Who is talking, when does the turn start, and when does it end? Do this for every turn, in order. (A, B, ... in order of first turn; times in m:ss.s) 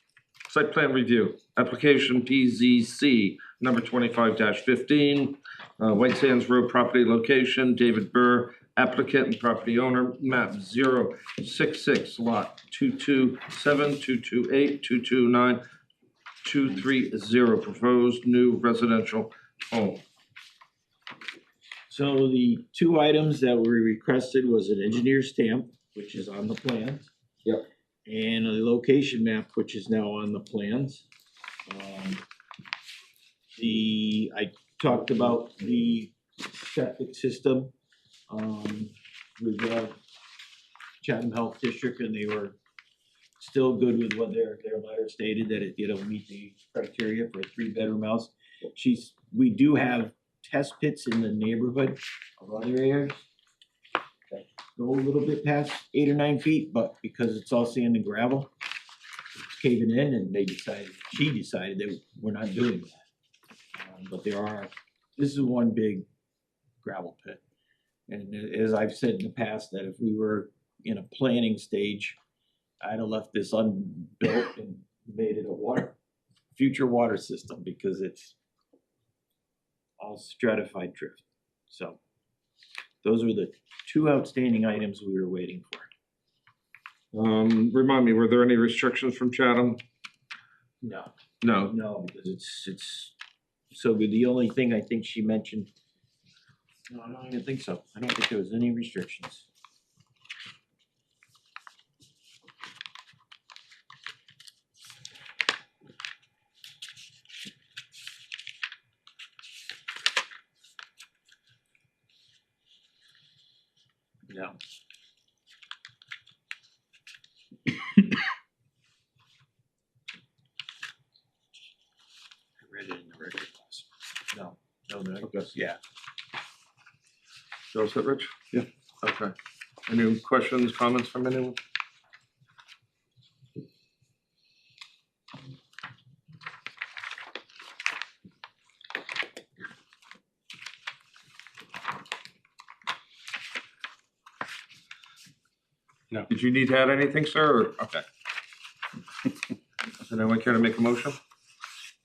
0:00.5-0:15.6 A
0:16.4-0:20.0 A
0:21.9-0:27.1 B
0:28.1-0:31.1 B
0:31.7-0:32.2 B
0:33.6-0:37.7 B
0:38.3-0:40.0 B
0:41.0-0:42.6 B
0:43.4-0:53.3 B
0:54.3-0:58.5 B
0:59.4-1:03.0 B
1:03.8-1:06.1 B
1:06.8-1:07.4 B
1:08.1-1:12.2 B
1:12.8-1:16.0 B
1:16.5-1:18.4 B
1:20.0-1:22.0 B
1:23.0-1:25.9 B
1:27.1-1:29.8 A
1:30.8-1:33.2 B
1:31.4-1:31.8 A
1:33.7-1:35.7 B
1:36.9-1:39.5 B
1:54.3-1:54.6 B
2:02.6-2:05.8 B
2:07.7-2:08.4 A
2:09.0-2:09.3 A
2:09.9-2:11.6 A
2:26.3-2:28.0 A
2:30.0-2:31.2 A